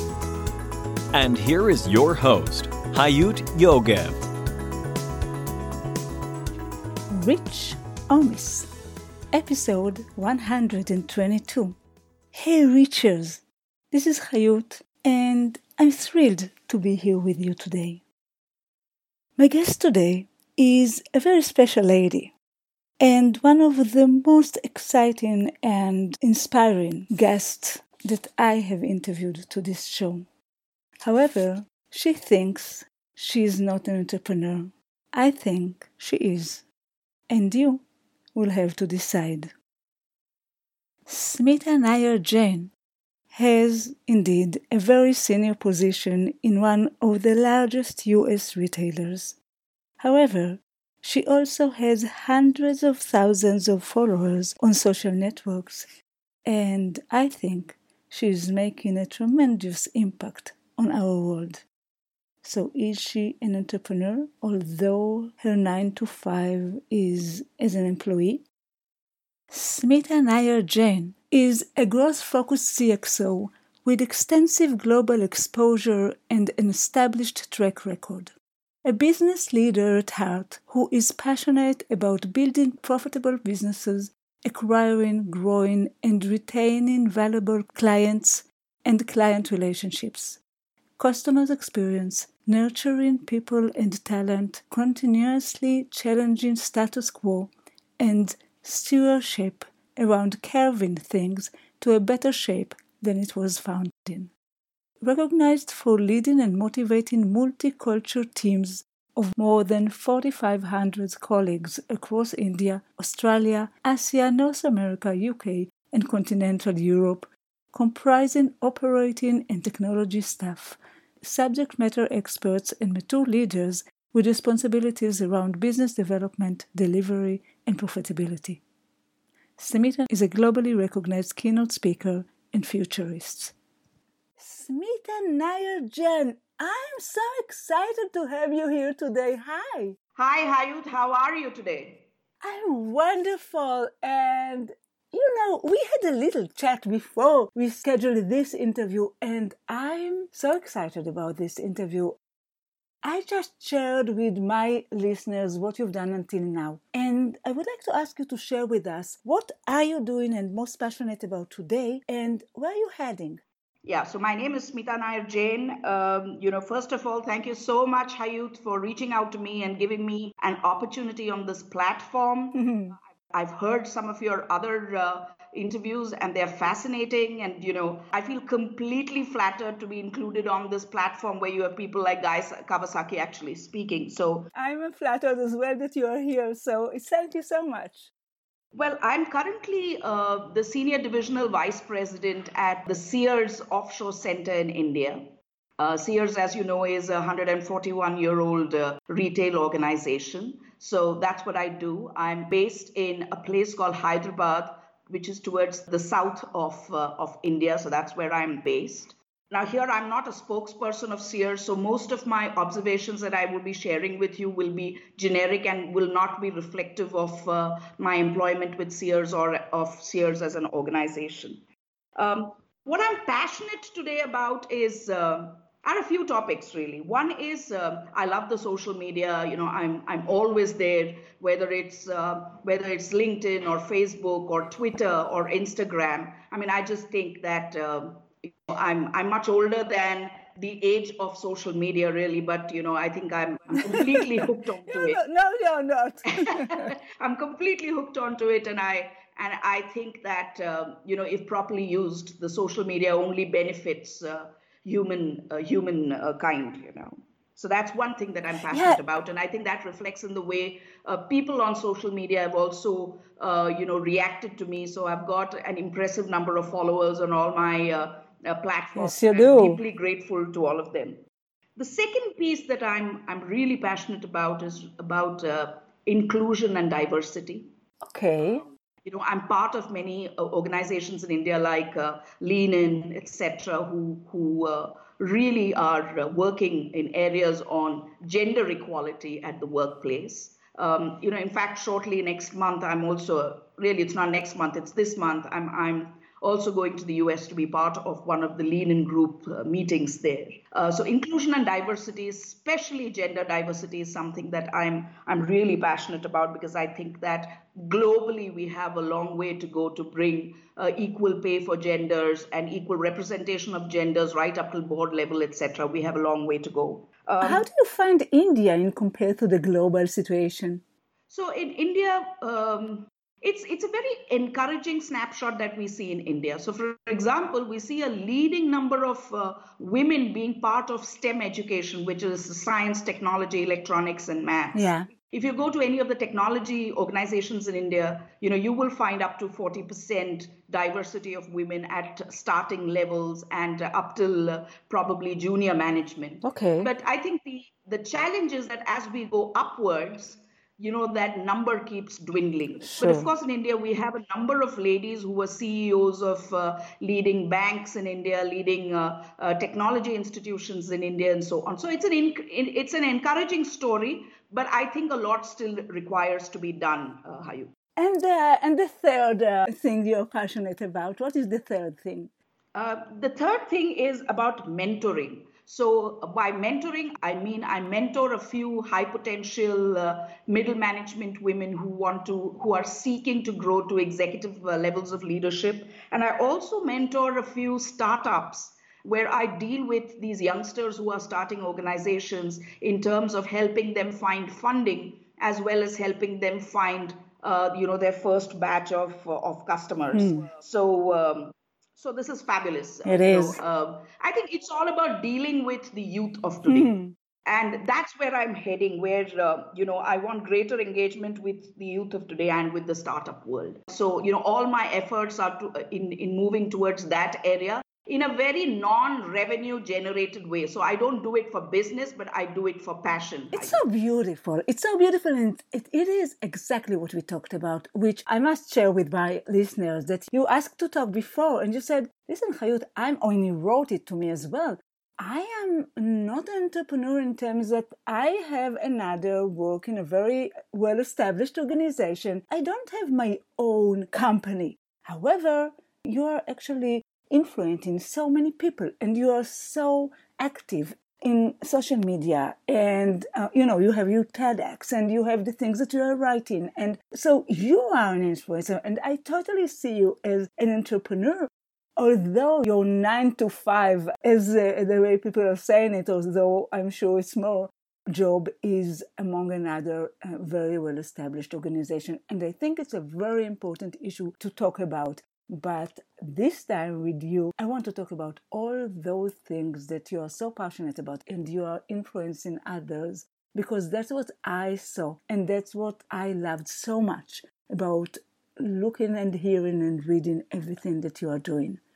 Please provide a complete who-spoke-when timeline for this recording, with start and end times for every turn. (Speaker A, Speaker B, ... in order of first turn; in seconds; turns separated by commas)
Speaker A: 1.1-4.2, Speaker B: 7.1-8.7, Speaker B: 9.3-11.8, Speaker B: 12.3-18.0, Speaker B: 19.4-22.3, Speaker B: 23.0-30.3, Speaker B: 31.0-36.6, Speaker B: 37.3-39.5, Speaker B: 41.0-42.7, Speaker B: 43.3-49.4, Speaker B: 50.0-55.9, Speaker B: 56.5-61.6, Speaker B: 62.4-68.4, Speaker B: 69.5-90.4, Speaker B: 91.0-104.3, Speaker B: 105.0-128.6, Speaker B: 129.6-133.6, Speaker B: 134.4-139.9, Speaker C: 140.2-142.1, Speaker B: 142.4-152.2, Speaker B: 153.0-163.4, Speaker C: 163.8-172.6, Speaker B: 172.5-172.9, Speaker C: 173.3-184.5, Speaker B: 184.5-188.1, Speaker C: 188.7-221.6, Speaker C: 222.2-245.2, Speaker B: 243.9-246.9, Speaker C: 246.4-271.2, Speaker B: 258.7-259.0, Speaker B: 268.9-269.8, Speaker C: 271.8-277.7, Speaker B: 278.0-278.6, Speaker C: 279.0-317.6, Speaker B: 317.4-320.8, Speaker C: 321.3-367.7, Speaker B: 334.7-335.1, Speaker B: 346.4-346.9, Speaker B: 352.8-353.3, Speaker B: 368.0-372.3, Speaker C: 372.7-406.9, Speaker B: 400.1-400.5, Speaker B: 403.0-403.6, Speaker B: 406.6-407.1, Speaker C: 407.4-423.8, Speaker B: 423.5-491.8